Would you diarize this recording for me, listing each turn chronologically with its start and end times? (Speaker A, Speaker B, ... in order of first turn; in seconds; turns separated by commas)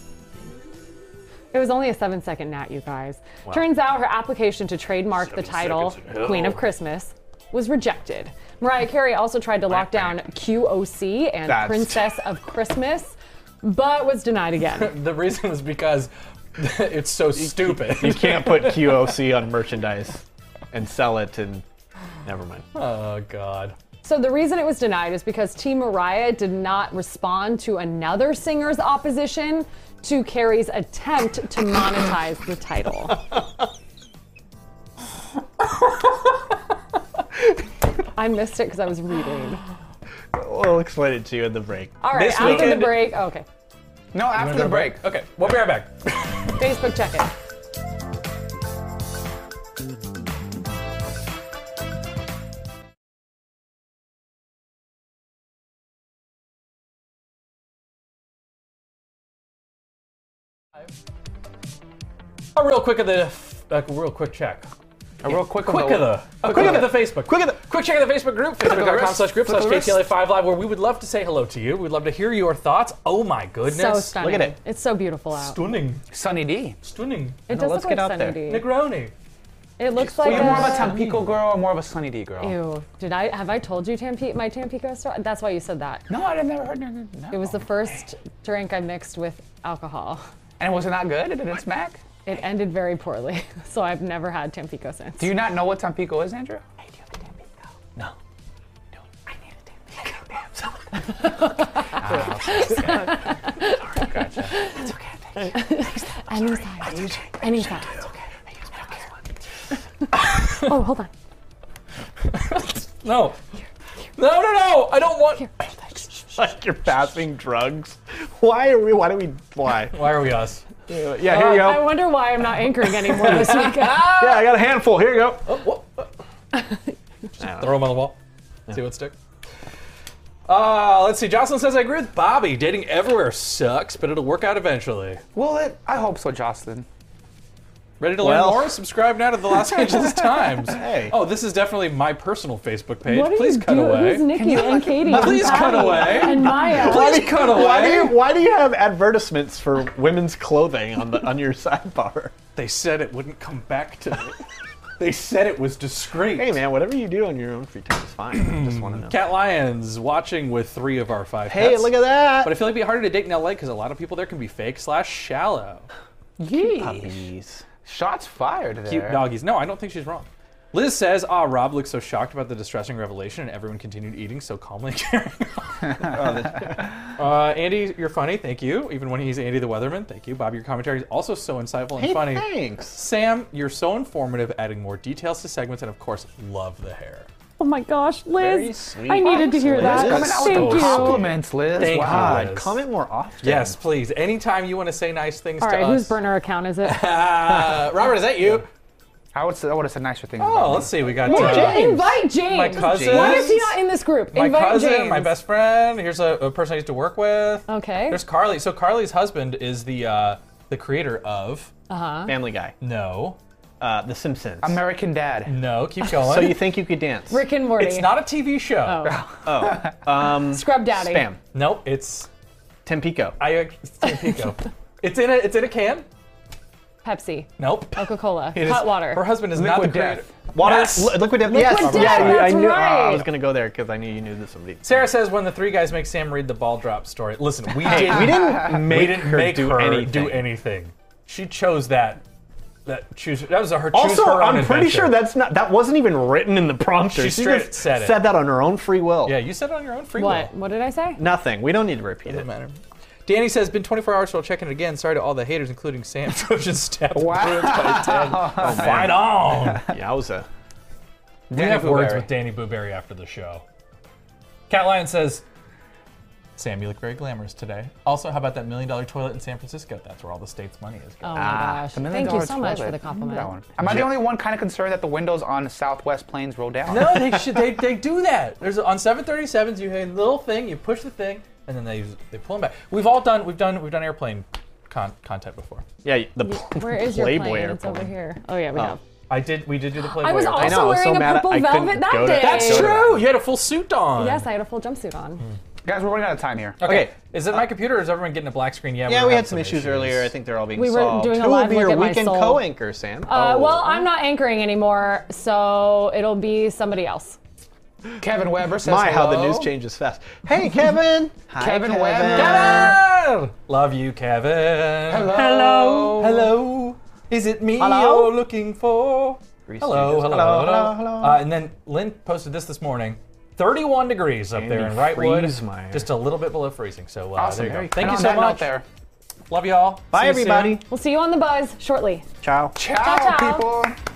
Speaker A: 1.5-14.9, Speaker B: 5.2-6.6, Speaker B: 11.5-12.2, Speaker C: 14.7-19.2, Speaker B: 17.4-21.6, Speaker B: 22.2-22.7, Speaker C: 22.7-23.8, Speaker A: 24.0-33.2, Speaker A: 38.2-39.6, Speaker B: 40.3-43.1, Speaker A: 42.0-43.5, Speaker C: 42.2-43.0, Speaker D: 44.1-45.1, Speaker C: 44.3-46.6, Speaker A: 46.6-47.3, Speaker C: 62.5-64.7, Speaker D: 65.2-67.0, Speaker C: 65.3-74.2, Speaker B: 66.5-67.6, Speaker D: 68.6-70.0, Speaker A: 73.7-75.6, Speaker B: 74.2-74.6, Speaker C: 75.4-76.0, Speaker D: 76.1-76.8, Speaker C: 76.8-77.4, Speaker A: 77.5-78.7, Speaker B: 77.5-78.4, Speaker C: 78.5-79.1, Speaker A: 79.8-81.0, Speaker B: 80.0-80.8, Speaker D: 80.2-82.5, Speaker A: 82.4-86.1, Speaker D: 86.1-87.6, Speaker A: 87.3-90.2, Speaker D: 90.6-92.0, Speaker A: 92.2-95.3, Speaker D: 95.2-96.6, Speaker B: 100.0-101.4, Speaker A: 101.2-104.9, Speaker D: 101.9-105.6, Speaker A: 105.4-107.9, Speaker B: 106.8-108.1, Speaker C: 110.1-110.7, Speaker A: 110.5-111.1, Speaker C: 112.3-113.4, Speaker C: 114.2-115.7, Speaker B: 116.3-120.0, Speaker C: 119.9-120.6, Speaker B: 120.9-122.2, Speaker A: 121.2-124.5, Speaker B: 122.8-125.6, Speaker C: 123.3-123.7, Speaker C: 125.4-126.1, Speaker A: 126.5-126.8, Speaker B: 127.4-127.9, Speaker C: 127.6-128.2, Speaker C: 128.7-129.2, Speaker C: 130.5-135.2, Speaker D: 135.3-136.9, Speaker C: 138.0-144.3, Speaker B: 138.2-138.8, Speaker B: 140.6-141.2, Speaker A: 143.1-147.2, Speaker D: 144.3-146.6, Speaker C: 145.1-148.2, Speaker B: 146.4-152.3, Speaker C: 152.6-154.4, Speaker C: 155.0-156.6, Speaker B: 156.3-159.3, Speaker C: 158.3-165.9, Speaker B: 161.5-162.7, Speaker D: 166.4-167.3, Speaker B: 166.7-167.7, Speaker D: 167.8-169.3, Speaker C: 168.9-176.1, Speaker B: 176.1-176.9, Speaker C: 177.2-187.3, Speaker B: 182.0-183.0, Speaker A: 187.6-191.2, Speaker B: 188.4-191.2, Speaker D: 189.2-192.5, Speaker C: 190.1-192.8, Speaker B: 191.7-193.8, Speaker C: 193.4-196.2, Speaker A: 195.6-197.0, Speaker C: 196.8-198.7, Speaker B: 197.5-197.8, Speaker D: 199.3-201.4, Speaker C: 200.4-203.8, Speaker B: 201.2-202.2, Speaker A: 201.3-205.3, Speaker B: 202.7-203.6, Speaker C: 204.3-211.7, Speaker A: 207.7-208.2, Speaker A: 211.9-212.4, Speaker B: 212.3-212.8, Speaker C: 212.8-213.4, Speaker B: 213.8-214.8, Speaker D: 214.6-215.5, Speaker C: 215.5-216.6, Speaker B: 216.1-217.4, Speaker A: 217.3-218.2, Speaker C: 217.8-219.2, Speaker A: 218.8-219.3, Speaker D: 219.1-219.9, Speaker B: 219.4-221.4, Speaker A: 220.3-221.3, Speaker C: 221.5-222.3, Speaker B: 222.8-223.4, Speaker C: 223.4-226.1, Speaker A: 227.0-229.2, Speaker C: 227.6-232.6, Speaker D: 229.5-230.3, Speaker B: 230.5-235.1, Speaker A: 231.4-233.3, Speaker C: 234.8-242.2, Speaker B: 237.8-240.5, Speaker C: 242.9-245.3, Speaker B: 243.9-249.4, Speaker C: 247.1-248.3, Speaker C: 249.2-250.5, Speaker A: 250.2-251.2, Speaker B: 251.2-252.5, Speaker C: 252.3-259.9, Speaker D: 257.1-259.8, Speaker B: 258.6-260.5, Speaker D: 261.5-262.3, Speaker C: 261.5-263.6, Speaker C: 264.7-265.4, Speaker C: 266.6-271.4, Speaker A: 271.2-273.5, Speaker D: 271.4-277.4, Speaker C: 276.9-285.9, Speaker B: 286.0-288.1, Speaker A: 286.5-289.0, Speaker C: 289.3-290.9, Speaker A: 290.1-293.1, Speaker B: 290.5-293.3, Speaker C: 292.3-294.5, Speaker A: 294.2-295.5, Speaker D: 295.8-296.8, Speaker C: 296.8-300.3, Speaker B: 296.8-297.1, Speaker B: 299.1-304.1, Speaker A: 300.8-302.7, Speaker A: 303.3-307.4, Speaker D: 308.2-309.7, Speaker B: 308.8-313.0, Speaker D: 311.5-313.0, Speaker A: 311.6-312.2, Speaker C: 312.3-328.8, Speaker D: 315.1-316.4, Speaker B: 315.3-316.5, Speaker B: 317.8-318.4, Speaker B: 319.7-321.4, Speaker B: 324.6-326.1, Speaker D: 327.4-328.9, Speaker C: 329.5-330.8, Speaker B: 330.1-330.8, Speaker A: 330.9-332.3, Speaker B: 332.4-332.8, Speaker D: 332.8-333.9, Speaker A: 332.9-333.7